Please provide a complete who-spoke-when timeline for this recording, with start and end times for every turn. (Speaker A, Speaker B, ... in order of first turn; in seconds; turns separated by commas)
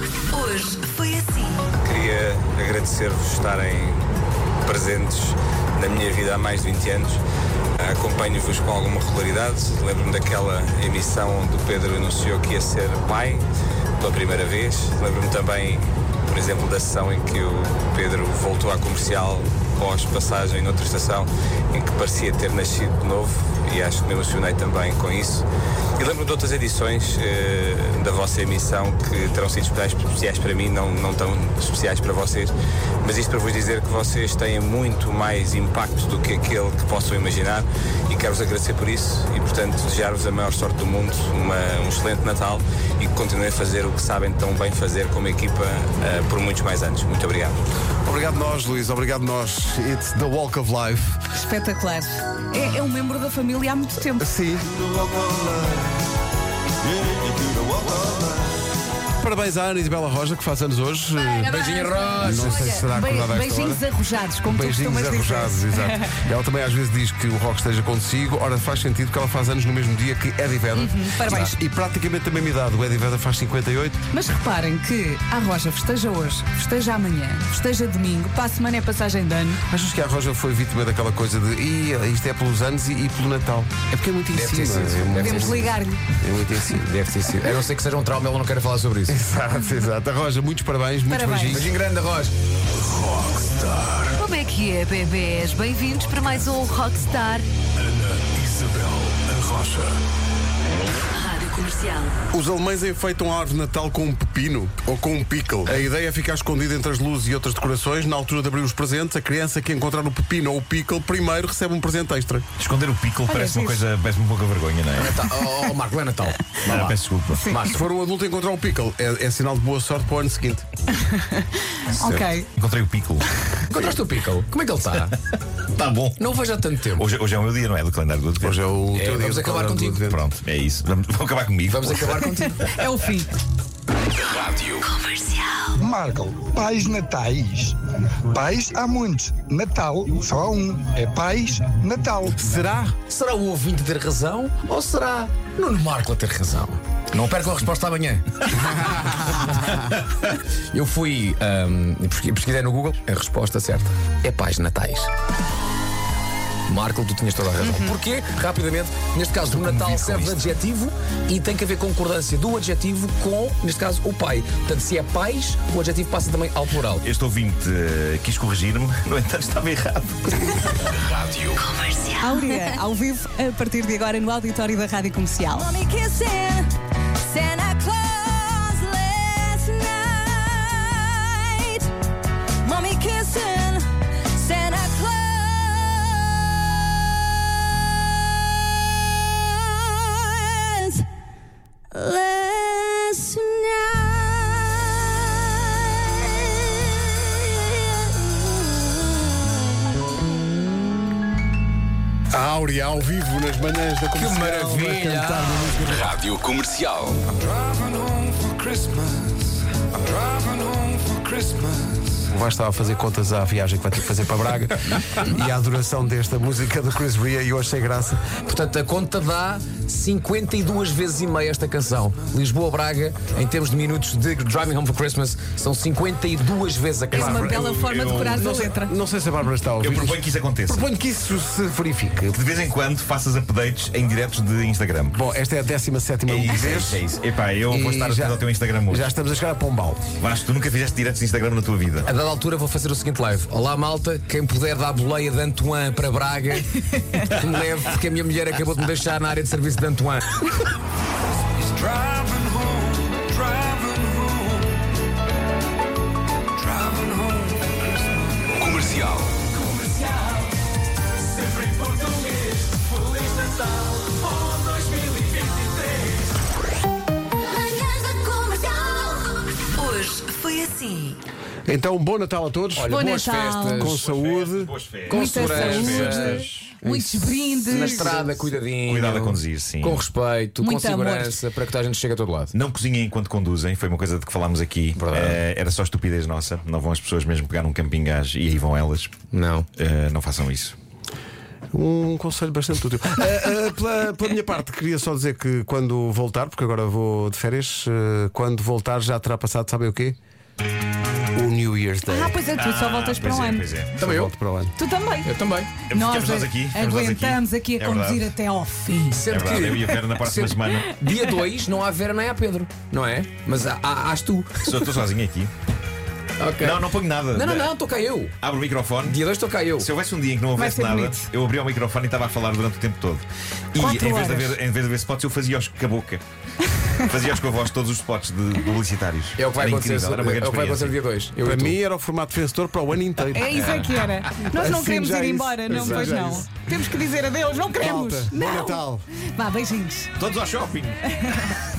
Speaker A: 0.3-1.6, Speaker B: 1.8-4.0, Speaker B: 4.6-7.2, Speaker B: 7.8-13.4, Speaker B: 14.0-25.4, Speaker B: 26.0-47.6, Speaker C: 48.0-51.2, Speaker D: 51.3-54.3, Speaker C: 54.2-56.0, Speaker C: 56.8-58.5, Speaker C: 59.2-61.6, Speaker E: 61.4-62.8, Speaker D: 61.7-66.1, Speaker C: 62.1-63.9, Speaker C: 64.4-74.0, Speaker D: 70.7-71.5, Speaker D: 74.1-79.6, Speaker C: 79.7-86.9, Speaker E: 84.3-85.8, Speaker D: 85.2-86.0, Speaker E: 86.7-89.2, Speaker C: 89.1-91.7, Speaker D: 91.1-91.6, Speaker E: 91.5-92.3, Speaker C: 92.9-94.1, Speaker A: 94.2-97.5, Speaker C: 97.9-100.0, Speaker A: 101.2-102.1, Speaker C: 102.3-112.5, Speaker F: 112.6-115.3, Speaker D: 113.3-113.8, Speaker E: 114.9-117.8, Speaker F: 116.6-117.6, Speaker C: 117.7-120.7, Speaker D: 121.0-122.5, Speaker C: 121.9-122.3, Speaker F: 122.5-123.3, Speaker E: 123.7-125.1, Speaker F: 125.7-126.4, Speaker E: 126.2-127.1, Speaker F: 126.9-128.6, Speaker C: 128.4-130.2, Speaker E: 128.9-130.0, Speaker F: 130.1-132.2, Speaker E: 131.7-132.8, Speaker D: 132.7-133.3, Speaker A: 134.9-135.5, Speaker G: 135.8-137.8, Speaker G: 138.3-142.5, Speaker C: 142.4-142.9, Speaker E: 143.1-155.1, Speaker E: 156.7-167.1, Speaker F: 159.4-160.6, Speaker F: 167.0-170.6, Speaker A: 171.7-172.5, Speaker D: 172.2-181.9, Speaker D: 182.6-186.1, Speaker D: 191.9-192.6, Speaker C: 202.3-206.1, Speaker E: 204.2-207.1, Speaker C: 212.2-218.3, Speaker E: 218.4-227.6, Speaker F: 227.1-228.4, Speaker C: 227.1-232.4, Speaker D: 227.2-228.9, Speaker E: 228.4-228.8, Speaker F: 229.8-230.8, Speaker F: 232.3-235.1, Speaker C: 235.1-237.1, Speaker F: 236.2-239.1, Speaker C: 237.6-240.1, Speaker F: 240.2-242.1, Speaker E: 242.0-250.4, Speaker A: 267.8-269.2, Speaker A: 269.8-271.2, Speaker C: 271.6-274.7, Speaker E: 272.8-274.0, Speaker D: 273.0-273.9, Speaker F: 273.9-276.5, Speaker E: 275.1-276.5, Speaker D: 275.1-278.2, Speaker C: 275.5-276.1, Speaker C: 276.6-278.3, Speaker E: 277.6-282.5, Speaker F: 278.8-280.1, Speaker D: 280.6-281.4, Speaker F: 282.5-289.1, Speaker E: 284.9-285.4, Speaker E: 289.3-289.7, Speaker F: 289.8-290.8, Speaker C: 291.7-300.2, Speaker C: 301.3-302.4, Speaker D: 302.1-303.7, Speaker F: 302.5-304.1, Speaker E: 304.0-304.3, Speaker C: 304.0-304.8, Speaker D: 304.8-309.2, Speaker E: 305.2-305.7, Speaker F: 305.9-308.3, Speaker E: 309.1-314.9, Speaker F: 309.3-310.9, Speaker F: 314.6-315.5, Speaker E: 316.4-318.4, Speaker F: 316.6-317.7, Speaker F: 318.4-319.2, Speaker E: 319.0-319.9, Speaker F: 319.8-326.2, Speaker D: 320.6-321.2, Speaker D: 323.8-324.6, Speaker F: 327.1-330.9, Speaker E: 329.4-331.8, Speaker C: 331.4-336.9, Speaker D: 333.3-338.8, Speaker F: 333.5-333.9, Speaker C: 337.7-339.1, Speaker D: 339.3-340.1, Speaker F: 340.2-341.5